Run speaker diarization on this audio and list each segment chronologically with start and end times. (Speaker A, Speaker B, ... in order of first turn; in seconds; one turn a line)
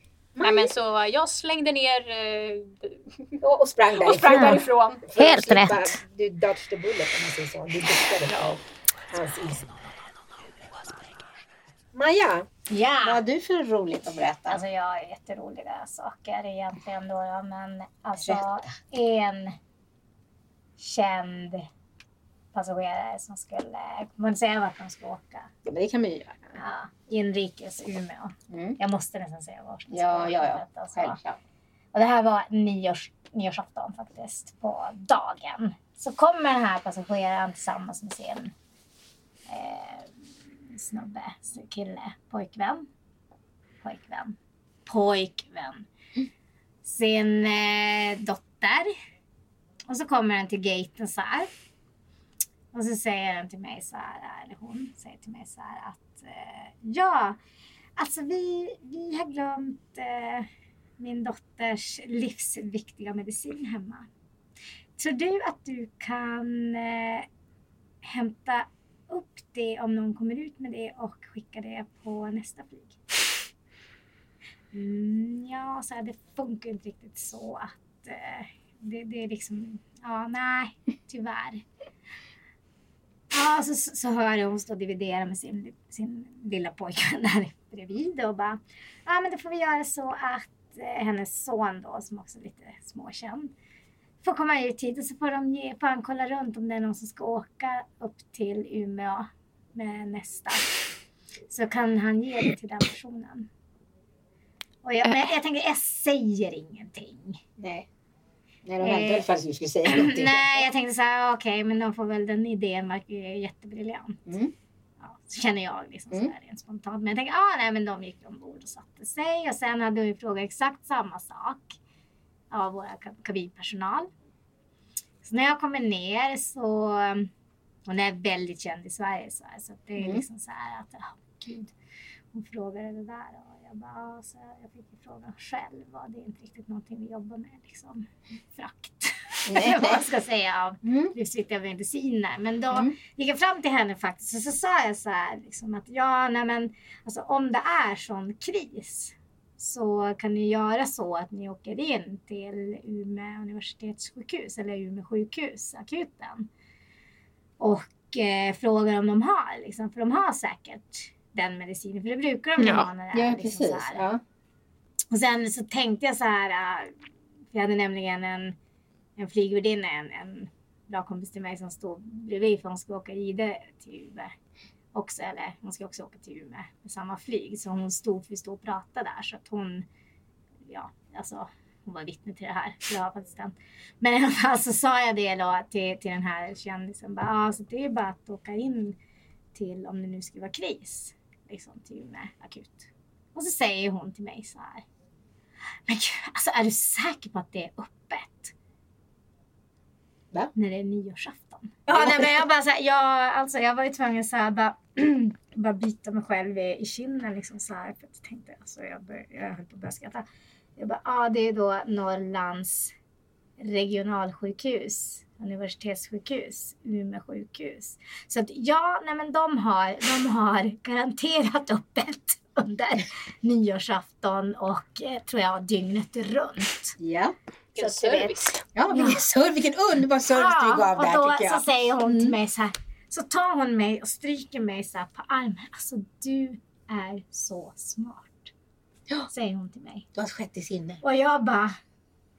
Speaker A: 0.3-0.7
Speaker B: 0.4-3.4
Speaker A: 3.4-9.7
Speaker B: 3.9-5.1
Speaker C: 4.3-4.6
Speaker C: 5.2-6.0
Speaker B: 8.2-8.6
Speaker A: 11.9-12.5
Speaker C: 12.7-13.2
Speaker A: 13.0-14.6
Speaker C: 14.5-19.6
Speaker A: 18.2-18.6
Speaker C: 20.8-21.7
Speaker C: 22.5-25.5
Speaker A: 25.6-26.6
Speaker C: 26.6-31.2
Speaker A: 28.5-28.8
Speaker A: 29.9-31.4
Speaker C: 31.9-38.5
Speaker C: 39.5-40.1
Speaker C: 40.7-42.9
Speaker C: 43.8-45.9
Speaker C: 46.8-48.9
Speaker C: 49.9-51.5
Speaker C: 52.7-57.4
Speaker C: 58.0-64.1
Speaker C: 65.0-67.3
Speaker C: 68.0-73.0
Speaker C: 74.7-81.6
Speaker C: 83.3-93.5
Speaker C: 94.2-100.7
Speaker C: 101.5-103.5
Speaker C: 104.8-107.4
Speaker A: 107.6-107.9
Speaker A: 108.6-110.7
Speaker C: 108.8-109.3
Speaker C: 109.8-114.2
Speaker A: 114.3-114.5
Speaker C: 115.0-121.8
Speaker C: 122.5-124.1
Speaker C: 125.2-127.3
Speaker C: 127.9-131.7
Speaker A: 130.0-130.2
Speaker C: 132.3-156.5
Speaker A: 139.5-140.0
Speaker A: 140.8-141.1
Speaker C: 157.6-164.1
Speaker B: 162.6-162.8
Speaker A: 163.1-164.2
Speaker C: 165.1-166.9
Speaker C: 167.5-168.6
Speaker C: 169.2-174.3
Speaker C: 174.9-179.8
Speaker C: 180.7-189.0
Speaker C: 189.5-194.8
Speaker C: 195.8-198.5
Speaker C: 200.5-210.2
Speaker A: 201.9-202.3
Speaker C: 210.8-212.9
Speaker C: 213.6-227.0
Speaker A: 227.0-227.3
Speaker B: 227.7-228.6
Speaker C: 227.8-229.2
Speaker A: 228.7-232.3
Speaker C: 230.3-238.5
Speaker C: 239.3-240.1
Speaker A: 240.1-241.0
Speaker C: 241.0-241.8